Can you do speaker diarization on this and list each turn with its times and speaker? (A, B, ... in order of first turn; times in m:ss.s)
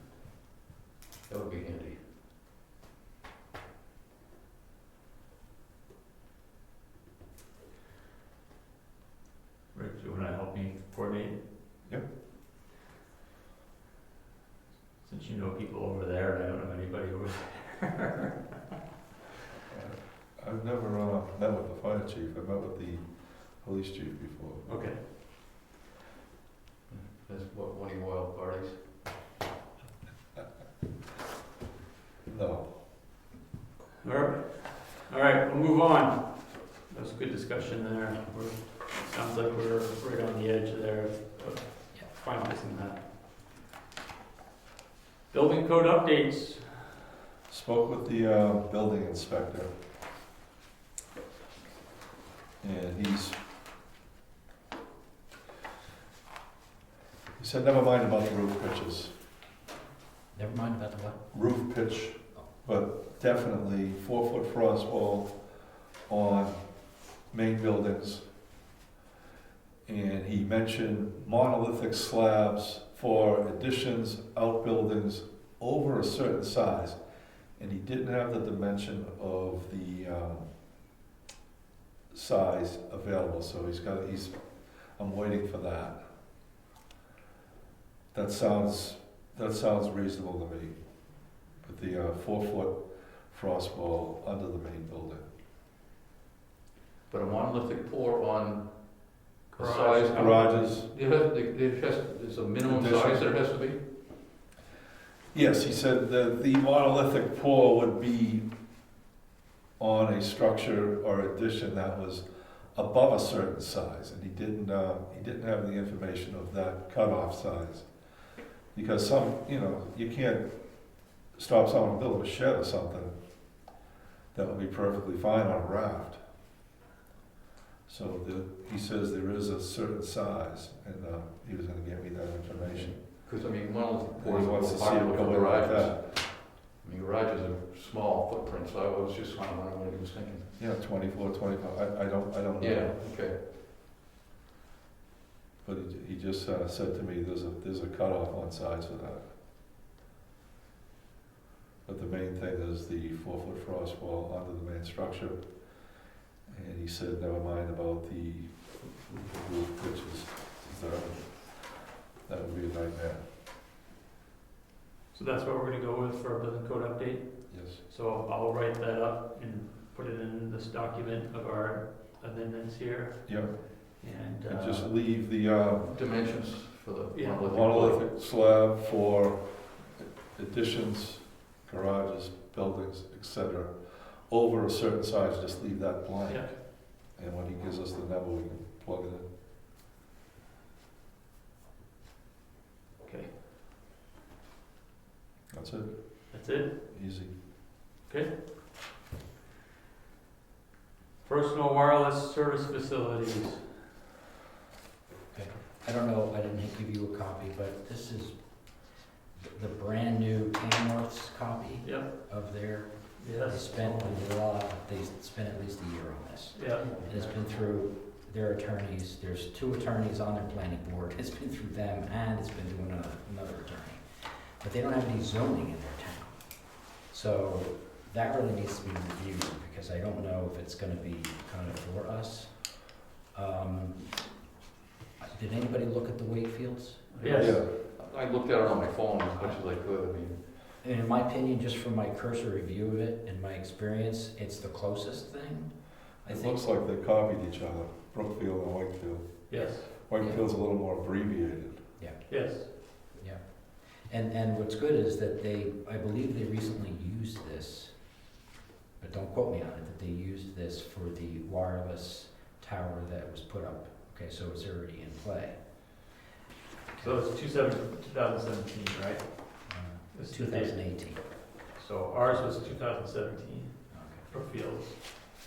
0:01.2-0:02.1 A
0:09.7-0:11.4 B
0:15.0-0:18.5 B
0:19.7-0:24.6 C
0:24.6-0:25.0 B
0:26.9-0:29.0 A
0:32.2-0:32.8 C
0:34.0-0:43.1 B
0:45.3-0:47.0 B
0:47.5-0:49.7 C
0:52.6-0:53.4 C
0:57.4-0:59.1 C
1:00.3-1:01.2 D
1:01.3-1:05.3 C
1:06.1-1:06.6 C
1:07.3-1:08.3 C
1:09.8-1:17.0 C
1:17.6-1:20.4 C
1:22.1-1:24.4 C
1:25.0-1:26.0 C
1:28.1-1:30.8 C
1:31.6-1:35.2 C
1:37.1-1:43.9 A
1:39.6-1:40.7 B
1:40.1-1:40.9 C
1:42.6-1:43.3 C
1:45.3-1:48.4 C
1:49.8-1:57.9 C
1:58.7-2:00.4 C
2:01.3-2:03.1 C
2:04.3-2:06.2 C
2:07.9-2:13.0 C
2:12.5-2:20.6 A
2:14.1-2:16.0 C
2:20.6-2:23.0 C
2:22.6-2:23.4 A
2:25.6-2:29.3 C
2:31.8-2:35.4 C
2:36.5-2:43.2 C
2:45.1-2:54.9 B
2:47.5-2:47.8 C
2:53.2-2:53.6 C
2:54.4-2:55.9 C
2:55.8-2:58.0 A
2:57.1-2:57.4 B
2:57.4-3:09.2 C
3:06.3-3:06.5 B
3:13.0-3:13.3 B
3:15.5-3:17.4 C
3:16.3-3:16.8 B
3:18.0-3:18.4 B
3:21.2-3:23.8 B
3:25.3-3:54.4 D
3:31.8-3:32.3 B
3:33.2-3:34.2 B
3:36.5-3:37.2 B
3:36.8-3:37.1 A
3:55.2-3:57.1 D
3:57.1-4:00.4 A
3:57.2-3:57.6 B
3:57.3-3:57.7 C
4:00.8-4:06.7 D
4:06.2-4:11.8 C
4:09.5-4:09.9 B
4:12.0-4:18.0 D
4:12.3-4:12.7 B
4:19.0-4:25.6 D
4:27.0-4:35.0 B
4:29.7-4:31.3 D
4:32.3-4:32.8 D
4:33.9-4:34.3 D